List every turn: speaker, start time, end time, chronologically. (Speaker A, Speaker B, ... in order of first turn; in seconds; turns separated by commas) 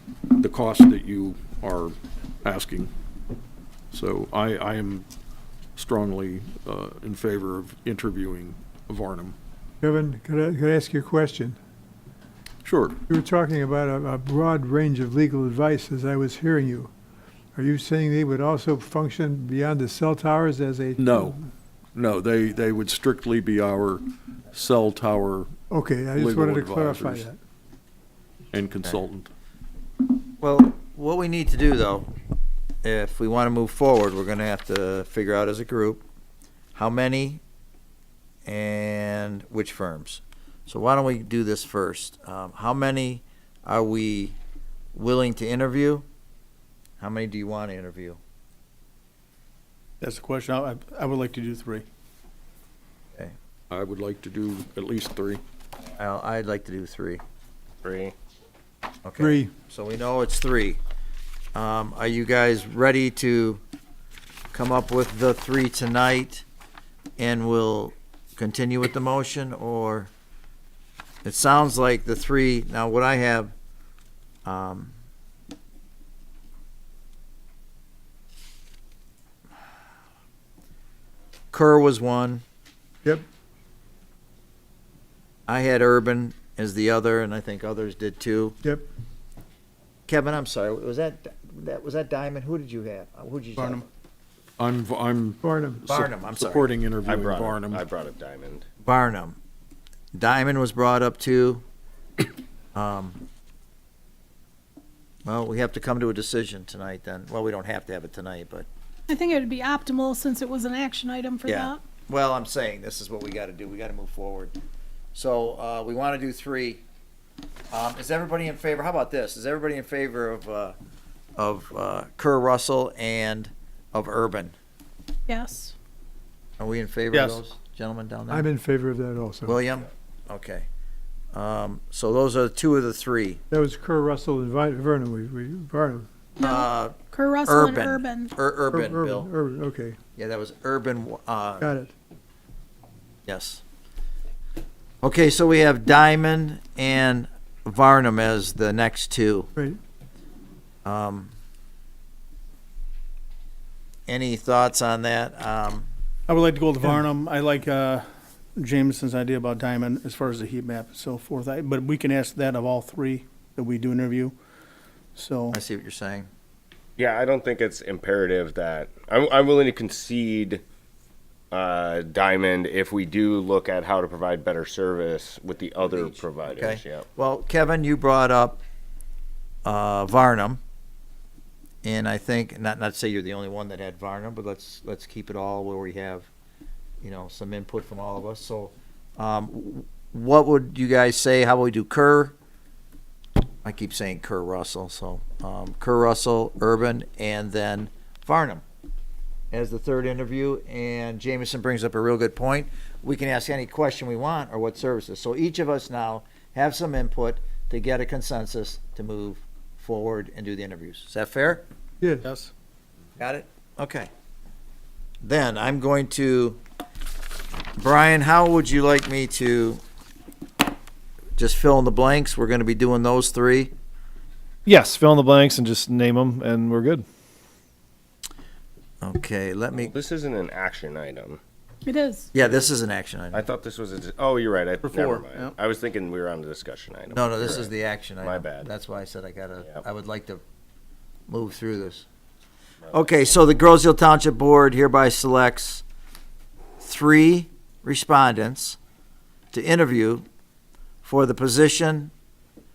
Speaker A: 0.4-2.9, Speaker A: 3.9-5.0, Speaker A: 5.8-9.3, Speaker B: 9.8-11.6, Speaker A: 12.6-13.0, Speaker B: 13.1-16.9, Speaker B: 17.5-21.4, Speaker A: 21.0-21.4, Speaker A: 21.9-25.5, Speaker B: 25.7-27.4, Speaker A: 26.1-27.3, Speaker A: 28.5-29.3, Speaker C: 30.4-32.1, Speaker C: 32.8-36.0, Speaker C: 36.7-37.4, Speaker C: 38.4-44.4, Speaker C: 44.9-46.0, Speaker C: 47.0-48.2, Speaker D: 50.0-51.8, Speaker A: 53.7-55.4, Speaker C: 56.0-57.2, Speaker E: 57.8-58.1, Speaker C: 59.0-60.8, Speaker B: 59.2-59.5, Speaker C: 61.5-63.6, Speaker C: 64.5-66.4, Speaker C: 67.2-70.1, Speaker C: 71.2-73.5, Speaker C: 74.4-74.9, Speaker C: 81.5-82.4, Speaker C: 85.5-88.6, Speaker C: 90.1-93.9, Speaker A: 94.6-97.8, Speaker B: 95.4-95.8, Speaker C: 95.9-96.7, Speaker E: 97.0-98.7, Speaker C: 98.8-99.4, Speaker C: 100.1-101.6, Speaker C: 102.7-103.2, Speaker C: 105.2-108.7, Speaker F: 109.1-111.8, Speaker C: 111.5-114.5, Speaker C: 115.1-116.8, Speaker C: 117.7-120.7, Speaker C: 121.4-124.5, Speaker F: 125.3-125.7, Speaker C: 126.6-128.5, Speaker B: 128.3-129.6, Speaker C: 129.4-130.7, Speaker C: 131.3-133.4, Speaker B: 133.5-136.1, Speaker F: 136.4-138.3, Speaker C: 136.4-139.3, Speaker B: 138.7-140.0, Speaker C: 140.2-141.7, Speaker B: 141.6-141.9, Speaker C: 143.2-143.6, Speaker C: 145.0-149.5, Speaker C: 150.8-151.3, Speaker C: 154.1-155.9, Speaker D: 156.3-158.0, Speaker B: 156.8-157.1, Speaker D: 158.6-164.3, Speaker D: 165.2-165.5, Speaker C: 165.5-166.3, Speaker E: 167.0-170.6, Speaker E: 171.5-177.1, Speaker C: 176.5-178.6, Speaker C: 179.6-180.6, Speaker C: 181.8-186.3, Speaker C: 187.0-192.3, Speaker C: 193.6-198.6, Speaker C: 199.5-211.6, Speaker B: 212.0-212.3, Speaker C: 213.2-214.1, Speaker C: 215.2-216.6, Speaker C: 217.8-219.8, Speaker C: 221.4-223.7, Speaker G: 224.7-227.0, Speaker C: 229.0-229.9, Speaker E: 229.7-231.4, Speaker F: 231.8-232.3, Speaker C: 232.3-233.4, Speaker E: 233.3-238.7, Speaker D: 235.0-235.3, Speaker C: 237.1-240.4, Speaker C: 241.3-242.1, Speaker C: 242.9-245.8, Speaker C: 246.8-248.8, Speaker C: 249.5-250.2, Speaker C: 251.0-252.1